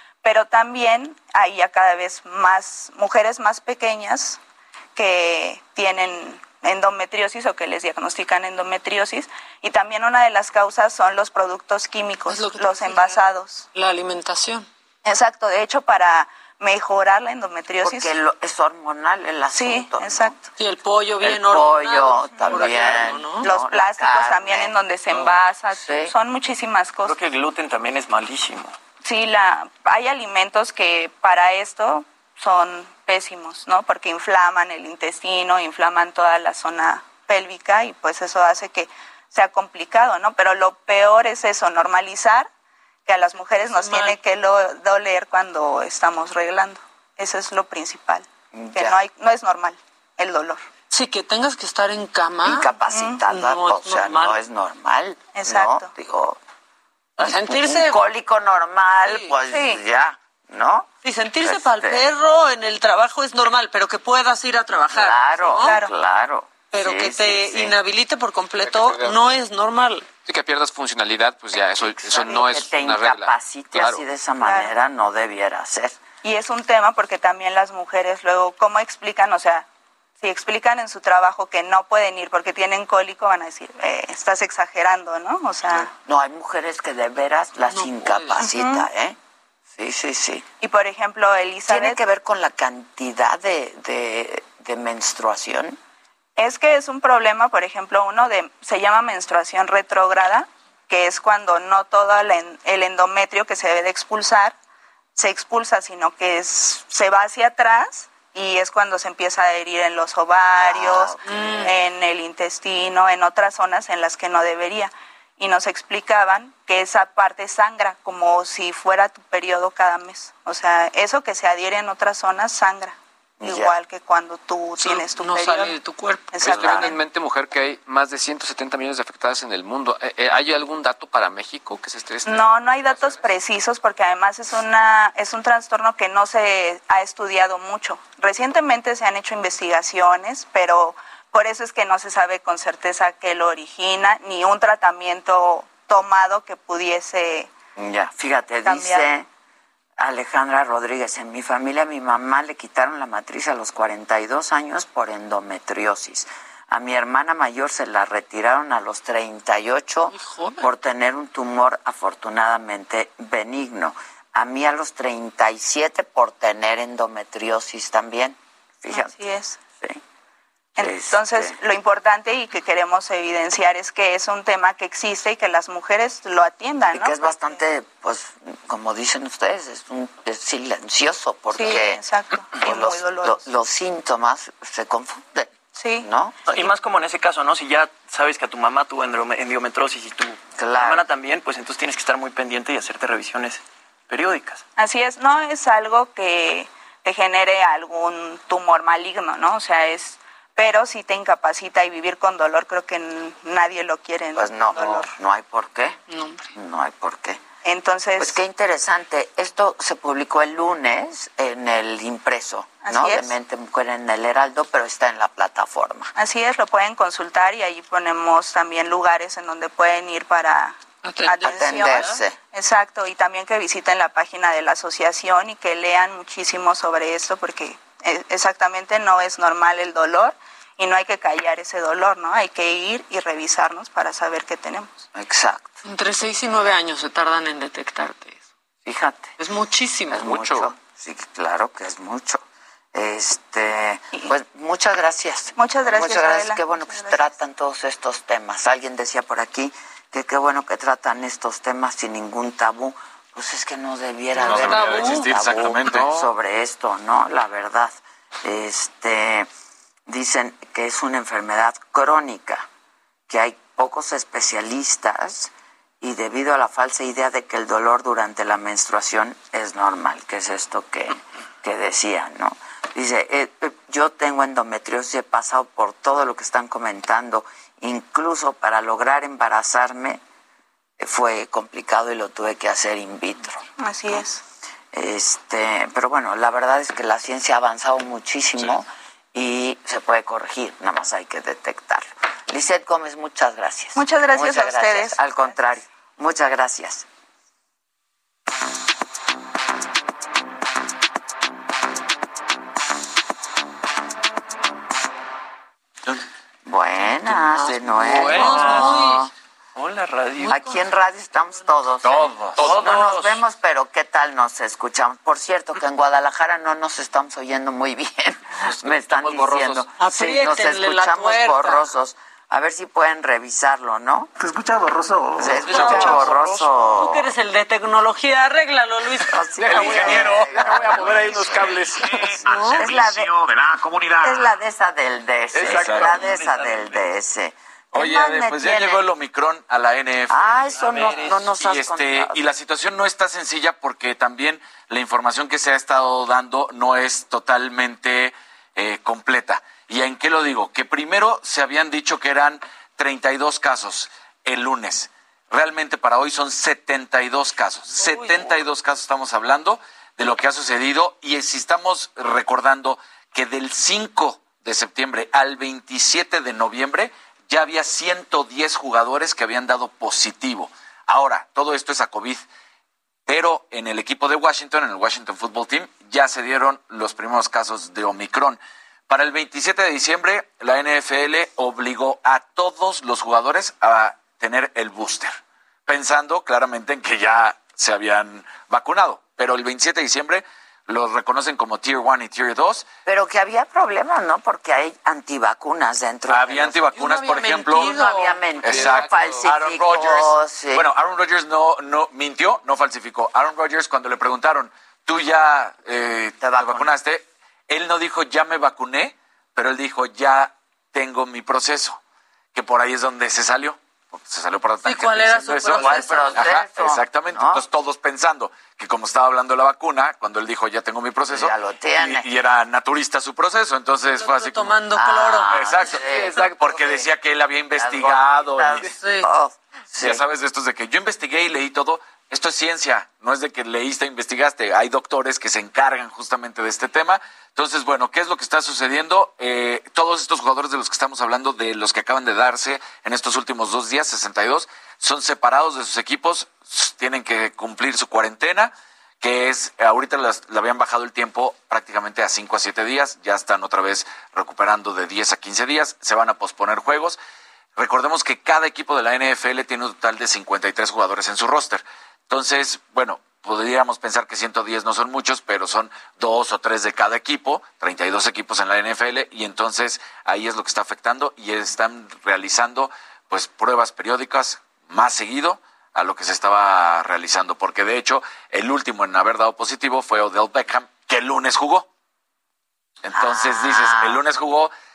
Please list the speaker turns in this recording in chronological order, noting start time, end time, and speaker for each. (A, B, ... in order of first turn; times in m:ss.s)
0:00.2-0:04.4 A
0:05.0-0:13.6 A
0:12.3-0:13.2 B
0:13.7-0:14.6 B
0:15.0-0:18.1 A
0:17.8-0:20.4 C
0:19.5-0:20.3 A
0:20.6-0:23.5 B
0:21.2-0:24.7 C
0:23.4-0:27.1 A
0:25.8-0:26.1 C
0:27.0-0:28.7 D
0:29.0-0:42.5 A
0:43.0-0:50.6 A
0:43.5-0:44.2 B
0:48.5-0:49.0 C
0:50.9-0:52.7 B
0:52.4-0:56.4 C
0:52.9-0:53.2 A
0:53.3-0:54.4 B
0:55.3-0:55.9 A
0:57.2-1:00.9 C
0:57.2-0:58.0 B
0:59.0-0:59.8 B
1:01.0-1:05.8 B
1:01.4-1:02.1 C
1:04.9-1:07.8 C
1:05.6-1:05.9 A
1:06.7-1:10.1 B
1:08.6-1:09.2 E
1:10.2-1:14.0 E
1:12.0-1:16.0 C
1:14.4-1:14.7 A
1:16.2-1:19.7 A
1:20.2-1:25.9 A
1:25.8-1:29.2 C
1:27.7-1:28.5 B
1:28.4-1:28.9 A
1:29.7-1:30.5 C
1:30.6-1:32.0 A
1:31.7-1:35.8 C
1:36.4-1:44.6 A
1:45.2-2:05.8 A
1:50.6-1:51.4 C
1:51.2-1:51.7 B
2:03.4-2:03.7 C
2:04.8-2:06.9 B
2:06.3-2:06.9 A
2:06.4-2:13.2 E
2:12.2-2:27.5 A
2:27.8-2:29.3 C
2:28.6-2:29.1 A
2:30.0-2:50.0 C
2:40.1-2:40.7 B
2:48.9-2:49.6 A
2:50.8-2:57.6 A
2:50.8-2:51.5 C
2:56.9-3:02.0 C
3:01.5-3:03.4 A
3:02.5-3:06.4 C
3:05.7-3:06.1 A
3:06.4-3:14.6 D
3:10.6-3:11.0 C
3:14.8-3:25.1 A
3:24.4-3:26.0 C
3:26.1-3:26.5 B
3:26.5-3:27.4 C
3:27.6-3:28.4 A
3:28.2-3:36.1 C
3:32.8-3:33.3 A
3:36.2-3:55.0 A
3:41.0-3:42.2 B
3:41.4-3:42.4 C
3:55.1-3:55.8 C
3:55.8-3:58.4 B
3:58.8-3:59.3 C
3:59.4-4:00.3 B
4:00.1-4:19.5 C
4:05.6-4:07.2 A
4:14.4-4:15.3 B
4:14.4-4:16.2 F
4:20.1-4:22.6 C
4:23.3-4:40.2 C
4:41.0-4:43.6 C
4:43.8-4:44.4 A
4:44.9-4:57.0 C
4:54.0-4:55.2 A
5:06.6-5:09.3 C
5:07.5-5:08.5 E
5:08.2-5:09.3 B
5:09.8-5:10.6 D
5:10.4-5:10.8 B
5:10.5-5:24.3 C
5:12.0-5:13.0 F
5:18.9-5:19.8 E
5:20.0-5:21.8 B
5:25.4-5:27.3 C
5:25.6-5:26.3 B
5:25.8-5:26.6 E
5:26.8-5:29.4 B
5:29.3-5:33.3 C
5:29.6-5:32.1 E
5:29.8-5:30.9 F
5:32.4-5:32.9 B
5:34.2-5:39.0 C
5:35.6-5:36.3 F
5:37.9-6:12.4 F
5:40.3-5:42.4 C
5:57.9-5:58.5 B
6:13.3-6:32.9 F
6:33.0-6:36.8 C
6:36.3-6:38.0 F
6:36.9-6:39.4 E
6:37.7-6:40.9 C
6:38.6-6:52.0 F
6:46.4-6:46.9 C
6:52.5-7:04.8 F
6:54.8-6:56.4 B
6:55.7-6:57.6 C
7:01.3-7:02.2 C
7:04.2-7:05.5 B
7:04.9-7:06.5 C
7:05.5-7:08.9 F
7:06.1-7:07.0 E
7:07.8-7:10.2 C
7:08.8-7:09.3 B
7:09.9-7:37.2 F
7:37.8-8:01.9 F
8:03.0-8:04.7 F
8:03.1-8:04.2 C